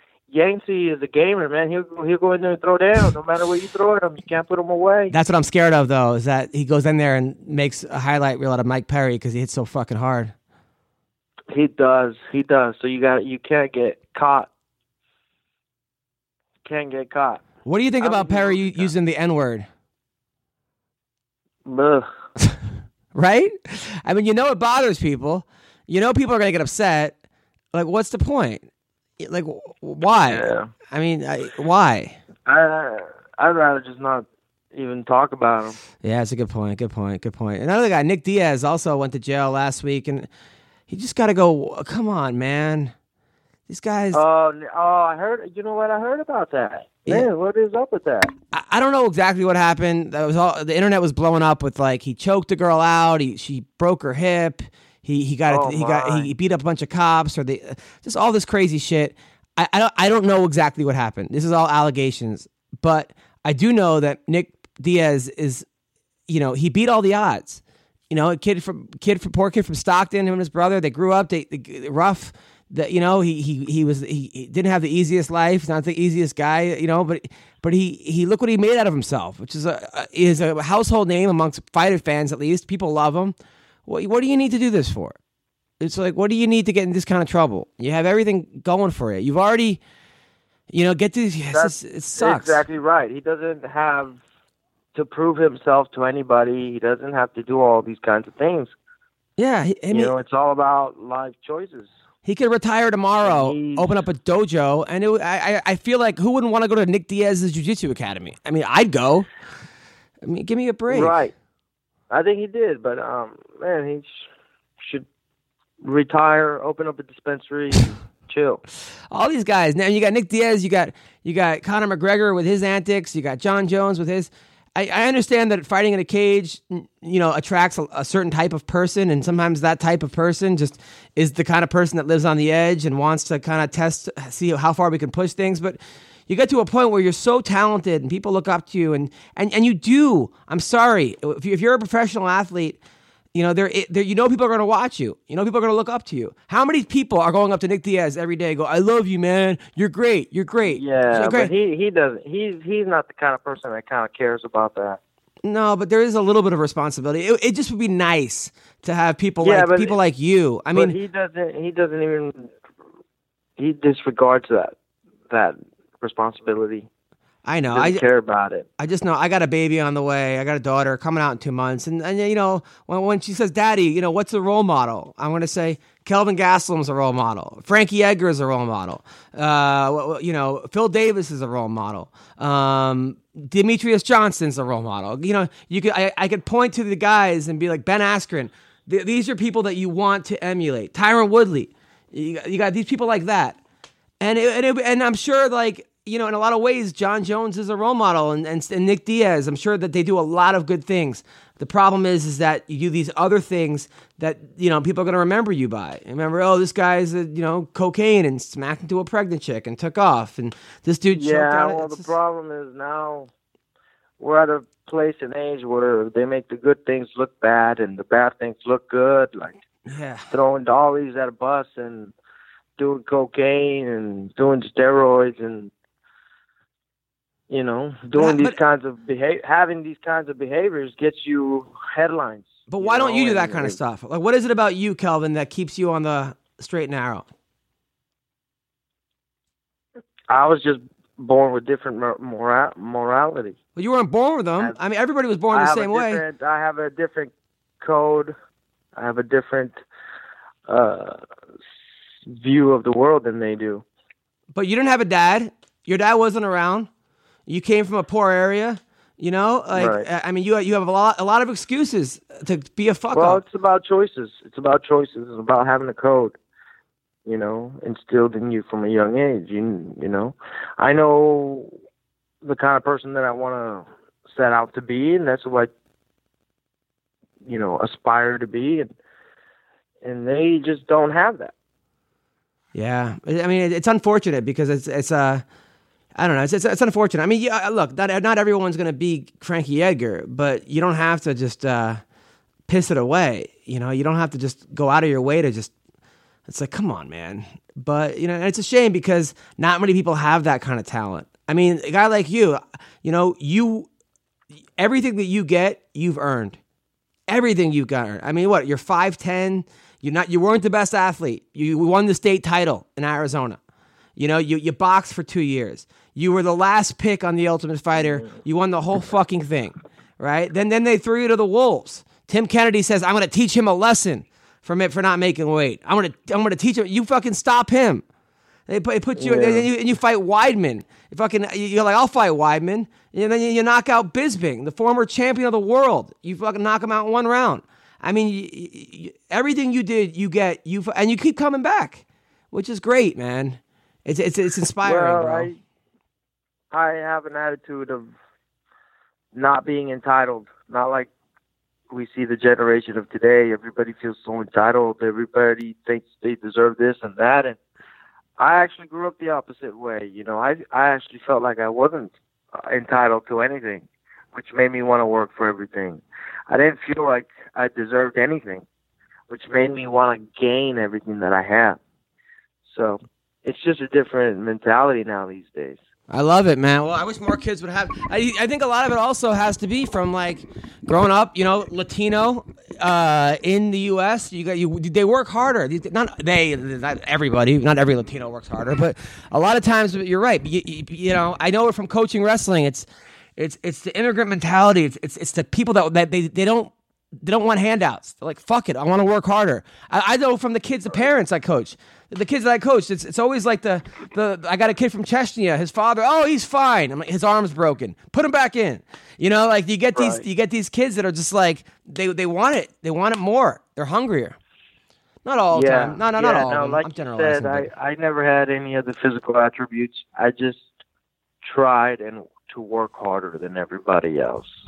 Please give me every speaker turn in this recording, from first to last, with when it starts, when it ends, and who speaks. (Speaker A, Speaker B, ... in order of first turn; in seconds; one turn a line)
Speaker A: 0.3-5.1
Speaker B: 5.1-10.3
Speaker A: 11.5-14.5
Speaker A: 16.6-17.4
Speaker B: 17.6-19.7
Speaker A: 18.0-18.9
Speaker A: 21.6-22.1
Speaker B: 23.1-27.2
Speaker B: 27.7-28.7
Speaker B: 29.2-32.2
Speaker A: 30.2-30.7
Speaker A: 32.5-35.8
Speaker B: 36.0-40.3
Speaker B: 40.9-42.9
Speaker B: 43.7-44.2
Speaker A: 44.1-48.3
Speaker B: 48.5-65.7
Speaker A: 55.5-56.3
Speaker B: 66.3-85.2
Speaker B: 85.8-89.8
Speaker B: 90.7-92.6
Speaker A: 91.5-94.2
Speaker A: 95.0-98.7
Speaker B: 99.4-100.1
Speaker A: 99.9-101.9
Speaker B: 102.2-109.3
Speaker A: 103.2-104.0
Speaker B: 110.2-111.2
Speaker A: 110.9-111.3
Speaker A: 112.1-114.3
Speaker A: 114.8-115.1
Speaker A: 115.8-118.6
Speaker B: 119.1-142.8
Speaker B: 143.3-151.5
Speaker A: 150.7-155.0
Speaker B: 155.4-161.0
Speaker A: 159.4-160.0
Speaker A: 160.7-162.5
Speaker A: 163.6-164.8
Speaker A: 165.3-166.9
Speaker B: 167.4-168.0
Speaker A: 167.7-168.7
Speaker B: 168.8-193.6
Speaker B: 194.2-212.1
Speaker A: 211.1-213.3
Speaker A: 214.2-219.6
Speaker B: 219.9-220.3
Speaker A: 220.3-222.1
Speaker A: 222.8-225.7
Speaker A: 227.5-233.8
Speaker B: 228.2-228.6
Speaker B: 232.7-237.3
Speaker A: 240.3-243.6
Speaker B: 243.8-246.2
Speaker A: 245.5-248.3
Speaker A: 249.0-249.8
Speaker A: 250.7-251.2
Speaker A: 252.3-253.8
Speaker B: 254.5-256.9
Speaker B: 257.5-263.4
Speaker A: 259.7-260.1
Speaker A: 263.1-266.4
Speaker A: 267.3-271.8
Speaker A: 272.4-275.7
Speaker A: 277.4-278.9
Speaker A: 280.0-281.5
Speaker B: 282.7-285.4
Speaker B: 286.2-292.0
Speaker B: 292.7-295.7
Speaker B: 296.5-303.9
Speaker B: 304.8-306.6
Speaker B: 307.3-313.6
Speaker B: 314.2-328.0
Speaker B: 328.7-345.5
Speaker A: 329.2-329.7
Speaker A: 344.8-345.6
Speaker A: 346.7-348.1
Speaker A: 349.3-351.1
Speaker A: 351.9-357.6
Speaker A: 358.4-368.6
Speaker A: 369.3-371.8
Speaker A: 372.6-375.8
Speaker B: 376.1-414.4
Speaker A: 409.9-410.2
Speaker B: 415.2-417.7
Speaker A: 415.5-420.8
Speaker A: 421.4-424.6